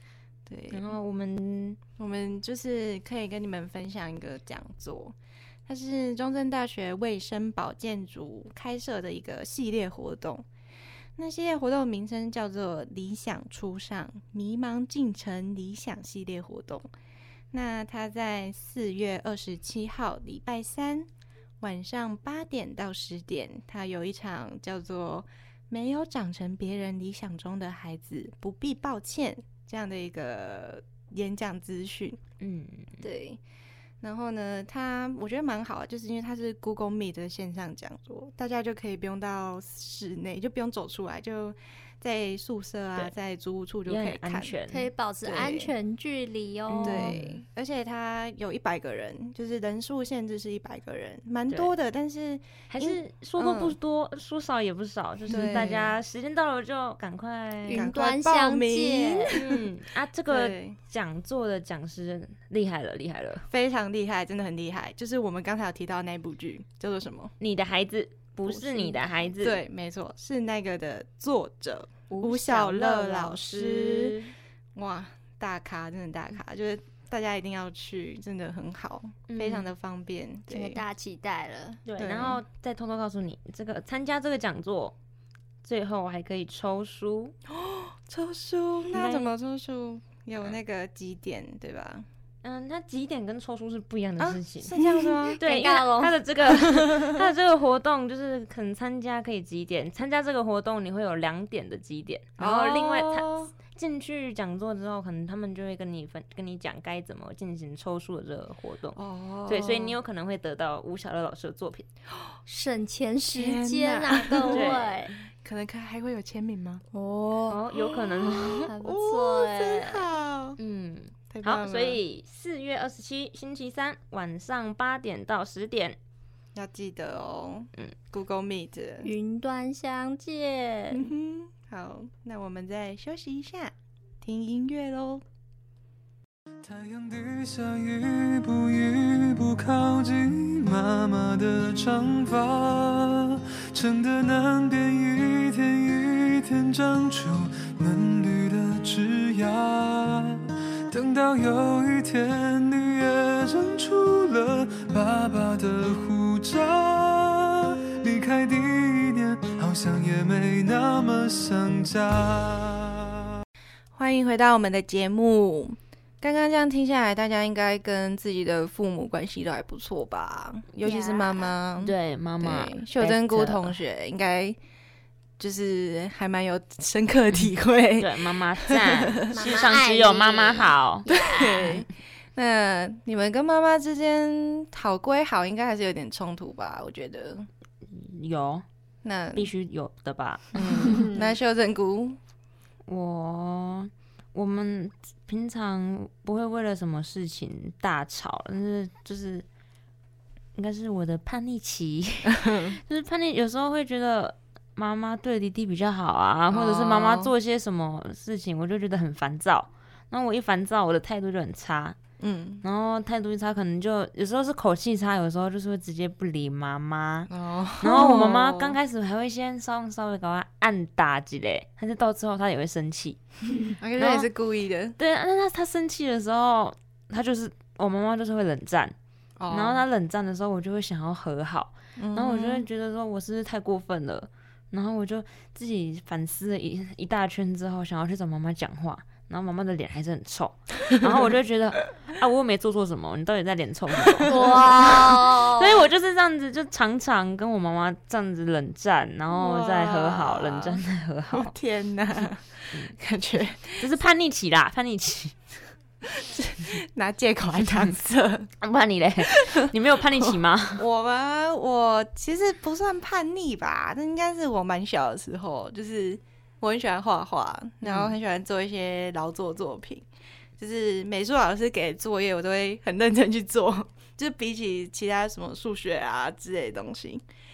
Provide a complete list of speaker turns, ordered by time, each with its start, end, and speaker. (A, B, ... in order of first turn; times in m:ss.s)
0:00.5-0:00.8 A
0:00.7-0:01.8 B
0:02.0-0:05.1 A
0:05.7-0:10.4 A
0:11.2-0:16.9 A
0:17.5-0:21.1 A
0:21.6-0:32.2 A
0:32.4-0:33.0 B
0:33.0-0:33.4 A
0:34.0-0:44.5 A
0:43.9-0:44.9 B
0:44.7-0:47.2 C
0:45.2-0:45.7 A
0:46.7-0:47.4 B
0:46.8-0:53.8 A
0:52.7-0:57.8 B
0:55.3-0:55.9 A
0:57.7-0:59.4 C
0:57.7-0:59.6 A
0:59.3-1:03.4 B
1:00.3-1:00.8 A
1:03.5-1:07.3 A
1:07.4-1:09.6 B
1:08.5-1:14.2 A
1:12.1-1:14.3 B
1:14.7-1:20.8 A
1:19.3-1:19.7 B
1:20.5-1:21.8 C
1:21.8-1:24.9 B
1:22.0-1:22.4 A
1:25.6-1:27.3 B
1:27.5-1:32.0 A
1:28.9-1:29.3 B
1:32.4-1:34.7 B
1:34.2-1:35.4 A
1:35.3-1:36.2 C
1:35.4-1:51.9 B
1:36.6-1:37.2 A
1:42.4-1:43.5 A
1:49.0-1:50.0 A
1:52.5-1:55.1 C
1:53.3-1:54.7 A
1:54.5-1:55.1 B
1:55.4-1:56.8 A
1:56.9-1:57.6 C
1:57.5-1:58.7 B
1:57.8-2:00.6 A
1:58.6-2:00.0 C
2:00.6-2:06.0 B
2:01.3-2:02.0 A
2:06.5-2:09.1 A
2:09.0-2:11.1 C
2:10.9-2:15.2 A
2:16.6-2:43.1 D
2:43.9-2:54.6 A
2:50.8-2:51.5 C
2:51.8-2:53.7 B
2:55.4-2:59.3 A
2:58.0-3:01.0 B
2:59.3-3:01.8 C
3:01.1-3:07.5 A
3:07.8-3:08.6 B
3:09.0-3:09.5 A
3:09.3-3:11.1 B
3:10.5-3:12.2 A
3:10.8-3:11.2 C
3:12.9-3:19.4 B
3:20.5-3:32.0 B
3:22.3-3:22.8 A
3:26.5-3:27.3 A
3:32.2-3:32.6 A
3:32.6-3:37.3 B
3:37.3-3:38.8 A
3:37.8-3:43.2 B
3:43.8-3:45.0 A
3:44.0-3:44.3 B
3:45.0-3:48.9 B
3:49.4-3:49.8 A
3:49.5-4:11.5 B
3:52.0-3:52.6 A
4:04.3-4:05.9 C
4:09.3-4:13.8 A
4:12.2-4:12.9 B
4:13.8-4:15.4 B
4:16.0-4:18.5 A
4:18.6-4:20.8 B
4:19.3-4:19.7 A
4:20.8-4:30.0 A
4:27.8-4:28.1 B
4:30.6-4:37.2 A